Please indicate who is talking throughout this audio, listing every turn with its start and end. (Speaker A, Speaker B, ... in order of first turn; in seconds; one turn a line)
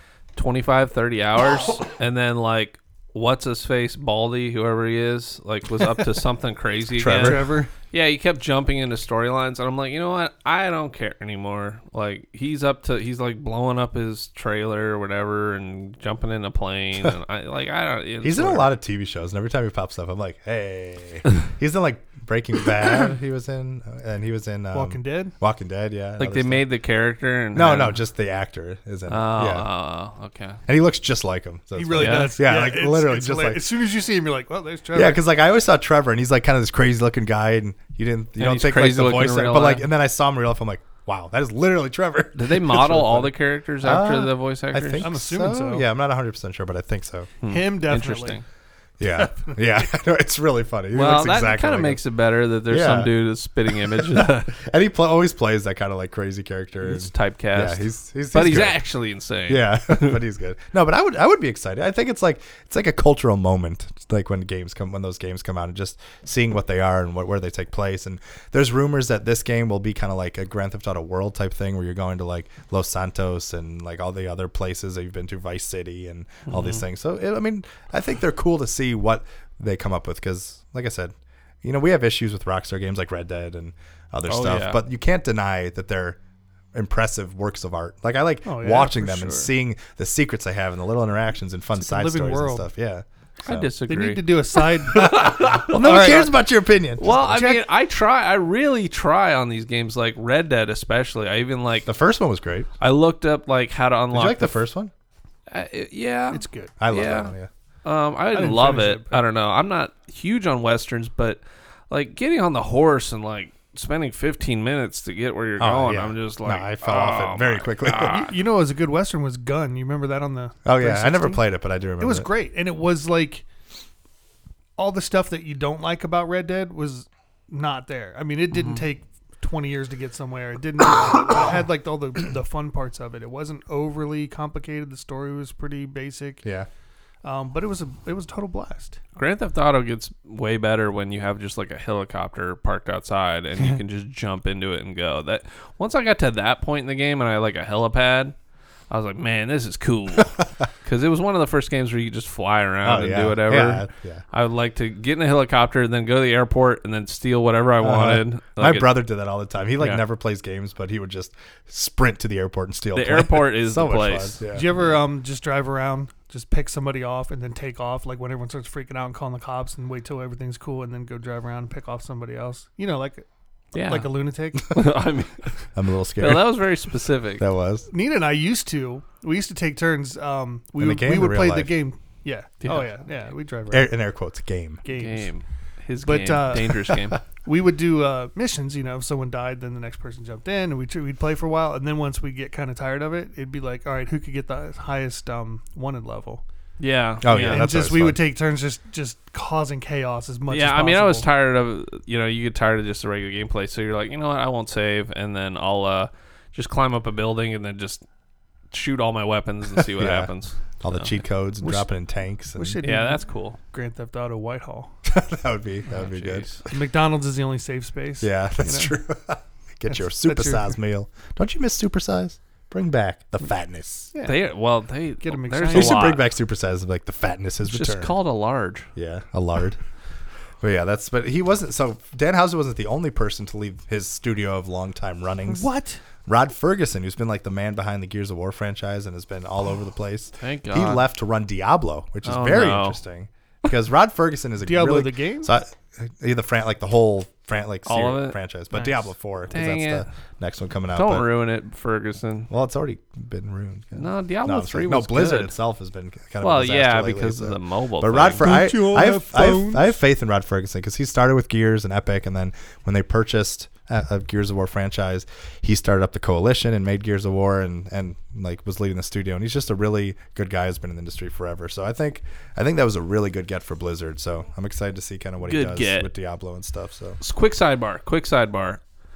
Speaker A: 0.3-18.7
Speaker B: 7.0-7.5
Speaker C: 7.1-7.7
Speaker B: 18.2-26.6
Speaker C: 24.7-25.3
Speaker A: 26.2-28.0
Speaker B: 27.5-29.7
Speaker A: 29.1-30.6
Speaker B: 30.7-33.6
Speaker C: 31.7-35.2
Speaker A: 31.9-32.4
Speaker B: 34.9-47.3
Speaker A: 38.4-39.9
Speaker A: 42.4-45.1
Speaker C: 45.0-45.9
Speaker A: 47.4-48.4
Speaker C: 47.4-48.4
Speaker B: 49.0-52.0
Speaker C: 49.2-49.5
Speaker A: 50.9-54.6
Speaker B: 52.7-53.1
Speaker B: 53.8-58.8
Speaker A: 56.8-60.2
Speaker B: 59.5-86.2
Speaker A: 76.5-76.8
Speaker A: 84.3-84.8
Speaker B: 86.7-93.7
Speaker C: 88.5-89.5
Speaker C: 91.8-92.7
Speaker A: 93.4-96.3
Speaker C: 93.9-96.3
Speaker B: 94.9-97.3
Speaker A: 97.0-101.9
Speaker C: 97.0-97.7
Speaker B: 101.8-102.7
Speaker A: 102.8-104.5
Speaker B: 104.1-104.9
Speaker A: 105.5-118.3
Speaker C: 106.3-106.7
Speaker B: 106.8-107.5
Speaker C: 108.3-109.2
Speaker B: 115.6-118.3
Speaker C: 118.0-121.4
Speaker B: 120.6-122.3
Speaker C: 122.0-123.5
Speaker C: 124.8-136.4
Speaker B: 136.4-136.7
Speaker C: 137.2-139.0
Speaker A: 139.2-148.3
Speaker A: 148.9-158.9
Speaker B: 152.8-154.2
Speaker B: 157.8-164.6
Speaker A: 162.9-164.4
Speaker C: 164.5-174.7
Speaker A: 173.7-175.5
Speaker B: 175.7-176.6
Speaker A: 176.2-177.4
Speaker B: 177.4-177.9
Speaker C: 177.9-183.9
Speaker B: 180.8-181.7
Speaker A: 182.6-182.9
Speaker B: 183.7-184.8
Speaker C: 184.8-185.3
Speaker A: 184.9-187.2
Speaker C: 186.0-196.4
Speaker A: 196.8-197.7
Speaker B: 197.2-198.2
Speaker C: 197.3-201.3
Speaker A: 200.5-208.0
Speaker A: 208.7-211.1
Speaker B: 209.9-212.8
Speaker C: 211.6-211.9
Speaker C: 212.5-214.9
Speaker A: 212.8-213.6
Speaker B: 215.1-216.6
Speaker A: 215.9-216.6
Speaker C: 216.7-218.9
Speaker B: 218.2-224.1
Speaker C: 219.9-220.7
Speaker C: 224.1-224.4
Speaker A: 224.2-226.2
Speaker C: 225.2-226.1
Speaker B: 225.7-228.1
Speaker A: 227.7-228.9
Speaker B: 228.9-229.8
Speaker B: 230.6-235.7
Speaker C: 235.5-236.0
Speaker B: 236.2-251.2
Speaker A: 240.4-241.0
Speaker A: 242.2-243.0
Speaker C: 244.6-245.5
Speaker A: 247.8-248.3
Speaker C: 248.7-249.0
Speaker A: 249.5-250.1
Speaker A: 250.9-252.5
Speaker B: 252.5-277.2
Speaker A: 253.9-255.5
Speaker A: 256.4-258.4
Speaker C: 258.4-260.0
Speaker A: 275.4-276.1
Speaker A: 277.2-278.8